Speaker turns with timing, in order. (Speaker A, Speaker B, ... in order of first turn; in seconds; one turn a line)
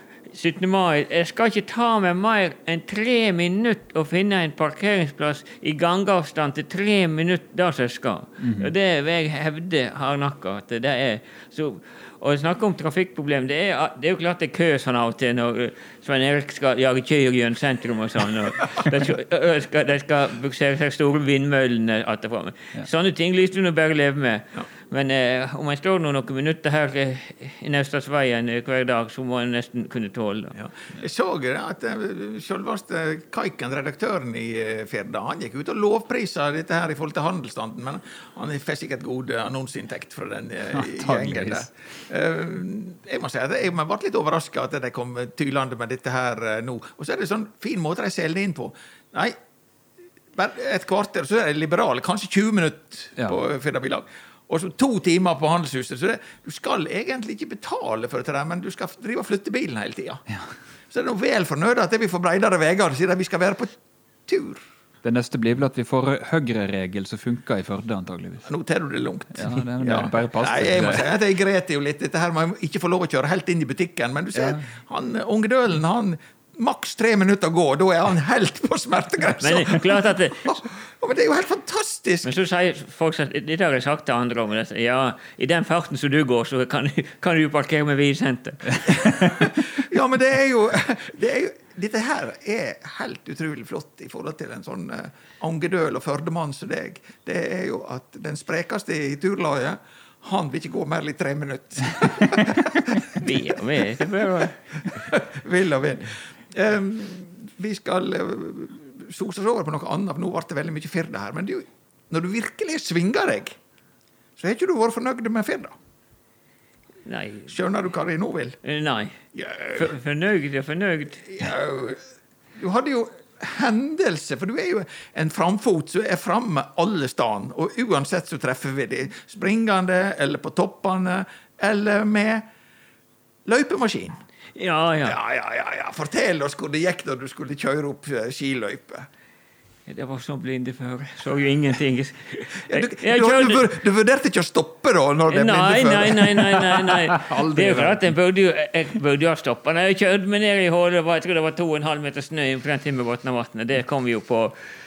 Speaker A: 0.3-30.5
Speaker B: 8.4-8.7
Speaker C: 30.6-49.4
Speaker B: 40.7-41.7
Speaker C: 50.3-60.2
Speaker C: 60.9-63.8
Speaker C: 64.3-64.6
Speaker B: 65.0-68.5
Speaker C: 68.5-82.3
Speaker B: 69.3-71.1
Speaker B: 74.3-74.6
Speaker A: 79.4-80.6
Speaker A: 82.2-88.8
Speaker C: 89.0-103.2
Speaker A: 103.2-104.6
Speaker C: 104.9-113.6
Speaker C: 114.4-115.7
Speaker A: 117.0-117.5
Speaker C: 117.5-118.6
Speaker A: 118.6-119.2
Speaker C: 119.3-120.0
Speaker A: 119.7-121.2
Speaker C: 121.3-122.0
Speaker C: 122.6-132.4
Speaker C: 133.4-134.2
Speaker A: 134.5-135.2
Speaker C: 135.0-139.1
Speaker A: 139.9-143.6
Speaker C: 142.7-146.7
Speaker A: 145.3-154.5
Speaker B: 147.2-148.0